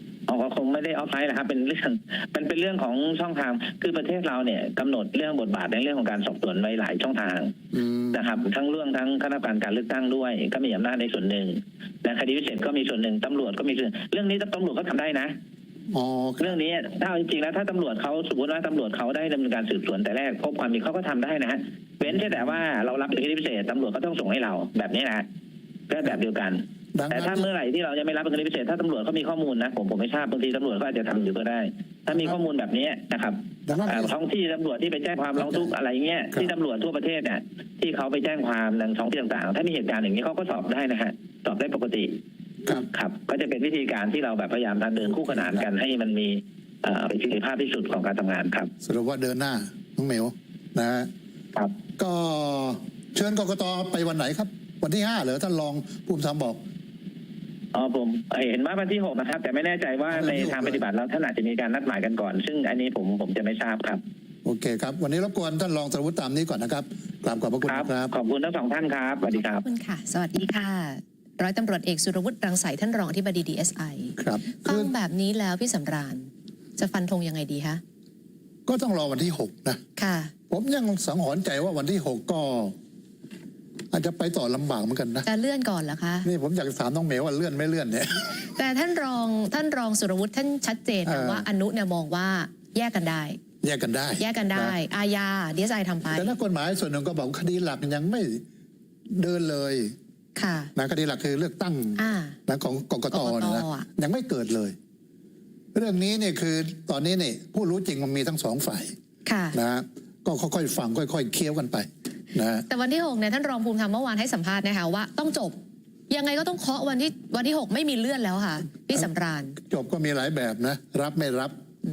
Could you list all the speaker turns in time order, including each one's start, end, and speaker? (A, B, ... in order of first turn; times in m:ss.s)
0:00.3-0:07.6 A
0:07.7-0:08.3 B
0:08.1-0:15.3 A
0:15.9-0:16.6 B
0:16.4-0:25.2 A
0:25.9-0:42.1 A
0:26.9-0:27.5 B
0:33.7-0:34.1 B
0:35.4-0:35.7 B
0:42.7-0:48.7 A
0:45.3-0:45.6 B
0:48.8-0:51.1 B
0:52.0-0:56.6 B
0:57.7-1:04.0 A
1:00.1-1:00.8 B
1:04.4-1:08.1 B
1:07.6-1:09.6 A
1:09.3-1:17.8 C
1:14.2-1:14.9 B
1:18.6-1:19.8 B
1:20.0-1:20.3 C
1:20.5-1:22.7 B
1:23.9-1:25.2 B
1:25.2-1:26.3 C
1:26.2-1:28.5 B
1:28.5-1:33.4 C
1:31.0-1:31.4 B
1:33.6-1:34.8 B
1:34.2-1:36.3 C
1:36.1-1:38.4 B
1:39.2-1:39.9 B
1:40.4-1:40.7 C
1:40.8-1:44.7 B
1:42.0-1:42.4 C
1:43.1-1:43.9 C
1:45.7-1:48.9 B
1:49.2-1:49.6 C
1:49.5-1:52.6 B
1:52.7-1:55.6 C
1:56.1-1:59.6 C
1:59.6-2:01.5 B